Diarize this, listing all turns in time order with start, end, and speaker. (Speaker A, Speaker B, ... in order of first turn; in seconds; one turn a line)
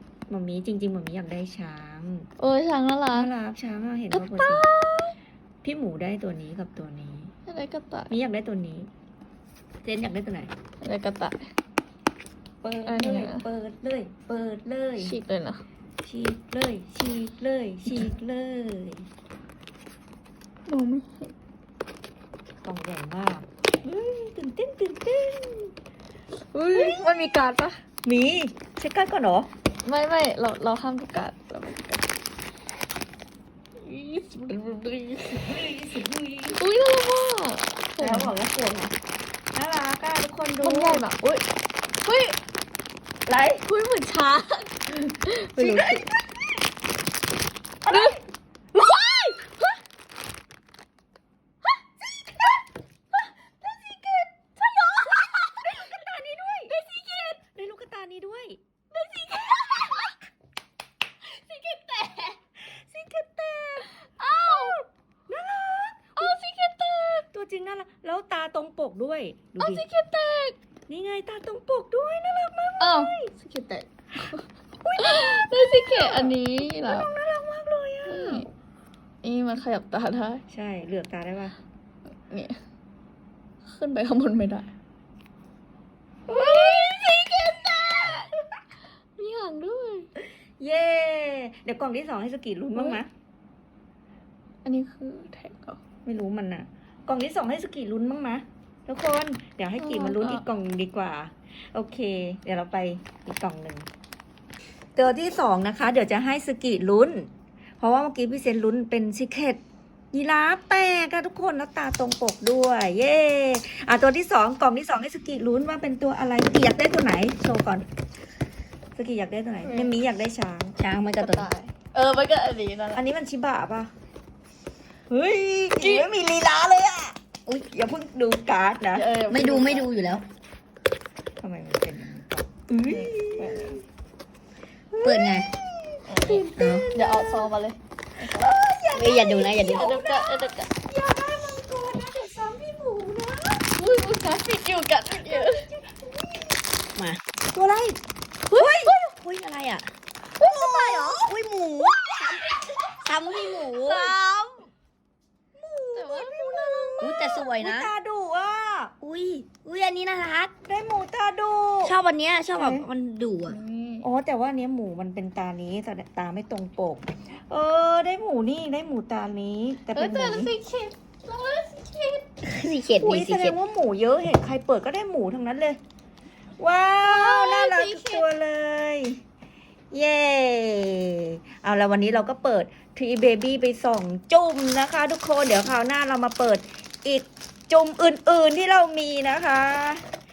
Speaker A: 0.3-2.3
Speaker B: 2.4-3.3
Speaker A: 3.1-4.6
Speaker B: 4.1-5.1
Speaker A: 5.6-7.3
Speaker B: 7.5-8.1
Speaker A: 8.1-8.9
Speaker A: 9.8-10.5
Speaker B: 10.8-11.5
Speaker A: 12.6-15.2
Speaker B: 12.8-13.4
Speaker B: 15.0-15.6
Speaker A: 16.0-19.1
Speaker B: 20.7-21.3
Speaker A: 22.6-25.7
Speaker B: 26.5-27.8
Speaker A: 26.7-27.1
Speaker A: 28.0-29.5
Speaker B: 29.8-32.1
Speaker B: 33.8-35.4
Speaker A: 35.3-36.6
Speaker B: 36.5-38.3
Speaker A: 38.0-38.9
Speaker A: 39.5-41.0
Speaker B: 40.6-41.4
Speaker B: 42.0-42.4
Speaker A: 43.2-43.6
Speaker B: 43.6-46.1
Speaker A: 45.5-46.2
Speaker A: 47.8-48.2
Speaker B: 47.9-48.1
Speaker A: 48.8-49.3
Speaker B: 48.8-49.4
Speaker B: 53.6-55.6
Speaker A: 55.4-56.8
Speaker B: 56.7-57.4
Speaker A: 57.5-58.6
Speaker B: 58.9-60.1
Speaker B: 61.2-62.4
Speaker A: 62.6-66.3
Speaker B: 64.0-64.8
Speaker B: 66.2-67.2
Speaker A: 67.3-69.8
Speaker B: 69.6-70.5
Speaker A: 70.9-73.3
Speaker B: 72.8-74.4
Speaker A: 74.8-78.4
Speaker B: 75.0-77.1
Speaker B: 78.1-78.5
Speaker B: 79.2-80.4
Speaker A: 80.5-81.5
Speaker B: 82.3-82.6
Speaker B: 83.6-84.7
Speaker B: 86.3-88.3
Speaker A: 86.3-87.3
Speaker B: 89.2-90.1
Speaker A: 90.6-93.1
Speaker B: 92.7-93.0
Speaker B: 94.6-95.8
Speaker A: 96.0-103.9
Speaker B: 99.8-100.4
Speaker A: 105.0-109.6
Speaker A: 110.1-117.8
Speaker A: 118.9-120.8
Speaker B: 119.6-119.9
Speaker C: 120.8-121.5
Speaker B: 121.2-123.0
Speaker A: 122.9-123.9
Speaker A: 125.1-127.2
Speaker B: 125.8-126.1
Speaker A: 127.7-129.1
Speaker B: 128.9-129.9
Speaker C: 129.3-130.2
Speaker A: 131.4-133.8
Speaker B: 132.8-133.8
Speaker A: 134.9-137.5
Speaker C: 135.0-135.5
Speaker B: 136.1-138.5
Speaker C: 136.5-136.8
Speaker A: 138.2-144.1
Speaker C: 138.9-140.0
Speaker B: 139.7-140.7
Speaker B: 143.8-145.7
Speaker A: 145.1-146.6
Speaker A: 147.5-148.0
Speaker B: 148.5-148.8
Speaker C: 148.5-149.9
Speaker A: 148.6-148.9
Speaker B: 150.4-151.2
Speaker A: 150.4-151.3
Speaker C: 150.6-152.4
Speaker C: 153.0-154.2
Speaker A: 153.7-154.2
Speaker A: 155.6-158.9
Speaker B: 155.9-157.3
Speaker C: 157.0-157.9
Speaker C: 159.0-160.5
Speaker A: 160.6-161.9
Speaker C: 161.8-163.6
Speaker A: 162.5-162.9
Speaker B: 163.5-164.1
Speaker A: 164.0-170.5
Speaker B: 169.9-172.3
Speaker C: 172.4-173.6
Speaker A: 173.0-175.8
Speaker A: 176.6-179.2
Speaker B: 177.0-178.2
Speaker A: 179.9-190.0